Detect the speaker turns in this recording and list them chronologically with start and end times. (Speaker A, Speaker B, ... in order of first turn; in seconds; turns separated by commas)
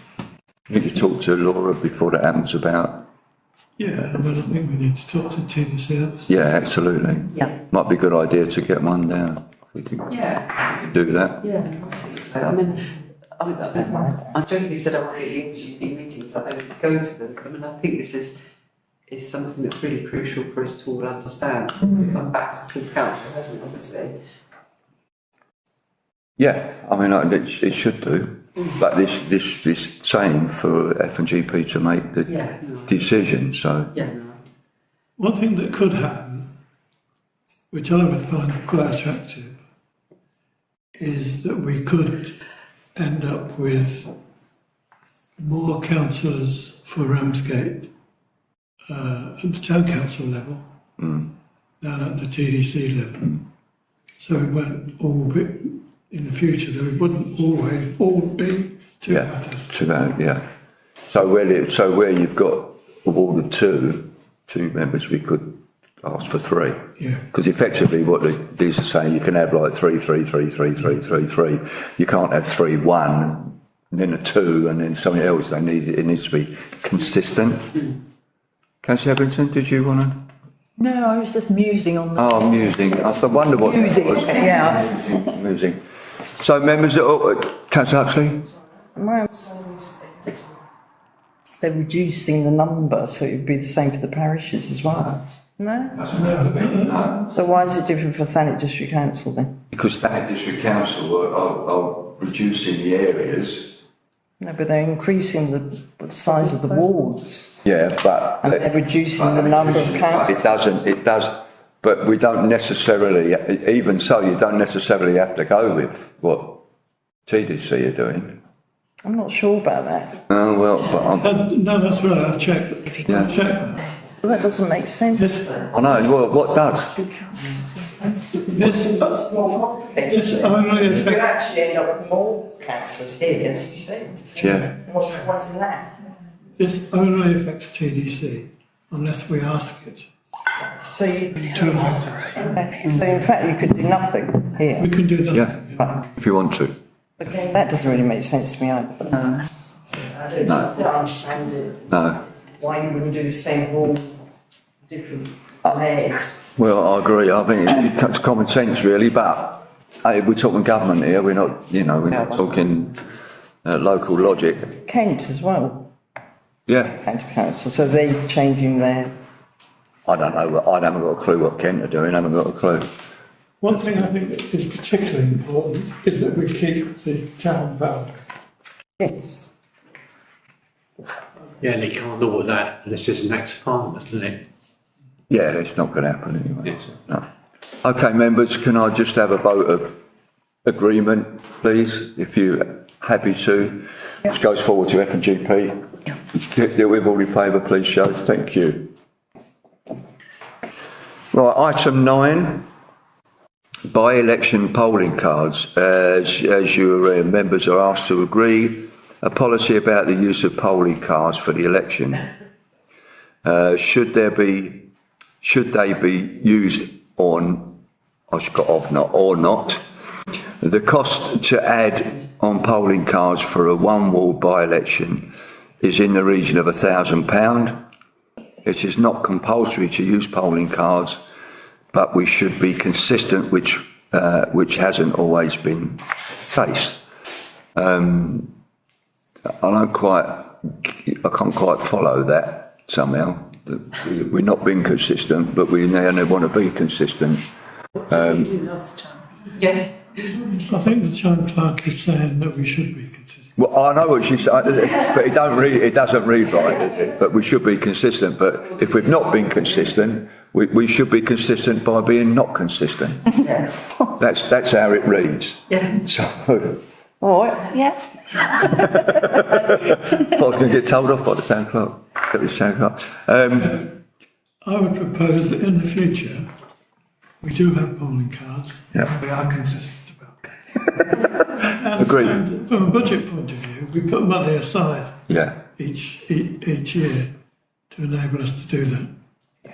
Speaker A: 0.7-3.0, Speaker B: 3.8-6.3, Speaker A: 6.3-10.1, Speaker C: 10.1-10.5, Speaker A: 10.7-11.4, Speaker C: 11.4-18.4, Speaker D: 13.9-14.2, Speaker C: 19.1-24.1, Speaker A: 26.4-33.9, Speaker C: 32.3-32.9, Speaker C: 33.9-34.4, Speaker B: 35.2-36.5, Speaker B: 37.7-39.6, Speaker B: 41.0-42.4, Speaker B: 43.0-44.1, Speaker B: 45.4-47.9, Speaker B: 48.9-50.6, Speaker A: 51.0-51.3, Speaker B: 51.8-53.4, Speaker B: 54.2-59.7, Speaker A: 59.1-60.4, Speaker A: 61.1-77.8, Speaker B: 67.0-67.2, Speaker A: 78.8-80.2, Speaker E: 80.8-82.6, Speaker A: 82.1-88.5, Speaker E: 83.6-84.8, Speaker D: 88.9-90.4, Speaker D: 91.6-96.0, Speaker A: 95.9-97.2, Speaker B: 96.2-97.0, Speaker D: 97.2-99.6, Speaker A: 99.7-103.8, Speaker D: 104.4-107.5, Speaker A: 107.6-116.6, Speaker D: 108.4-110.6, Speaker A: 117.2-118.4, Speaker D: 119.0-120.2, Speaker A: 120.3-121.4, Speaker B: 121.2-123.9, Speaker A: 123.0-123.3, Speaker D: 124.2-125.2, Speaker B: 125.2-125.7, Speaker A: 125.7-127.1, Speaker B: 128.4-129.2, Speaker D: 128.9-135.9, Speaker B: 130.0-131.3, Speaker A: 134.4-134.7, Speaker B: 136.6-140.1, Speaker D: 140.6-141.9, Speaker B: 141.5-142.6, Speaker D: 142.4-144.9, Speaker B: 144.8-145.8, Speaker A: 145.3-146.8, Speaker D: 147.2-151.9, Speaker A: 150.4-150.7, Speaker A: 151.9-152.2, Speaker D: 152.6-154.2, Speaker D: 154.8-156.4, Speaker A: 156.6-163.0, Speaker A: 163.6-164.7, Speaker D: 164.8-165.9, Speaker A: 166.7-167.0, Speaker D: 166.8-169.1, Speaker A: 170.1-172.9, Speaker B: 173.6-178.2, Speaker D: 179.0-179.5, Speaker F: 181.6-184.4, Speaker A: 185.3-187.2, Speaker A: 187.8-190.0, Speaker A: 190.6-195.8, Speaker A: 196.3-198.9, Speaker A: 201.3-202.6, Speaker A: 203.9-212.2, Speaker A: 213.4-214.9, Speaker A: 215.4-217.8, Speaker A: 218.3-219.8, Speaker A: 220.6-227.8, Speaker A: 228.6-231.2, Speaker A: 231.9-237.0, Speaker A: 237.7-238.5, Speaker A: 239.6-247.5, Speaker A: 248.1-248.8, Speaker C: 249.6-250.0, Speaker B: 250.5-253.6, Speaker A: 253.6-263.3, Speaker C: 263.4-263.7, Speaker A: 264.1-267.7, Speaker A: 268.4-273.8, Speaker B: 273.6-273.9, Speaker B: 274.6-276.5, Speaker B: 277.4-285.2, Speaker A: 282.0-282.4, Speaker A: 285.3-285.6, Speaker B: 285.8-287.3, Speaker B: 287.9-289.1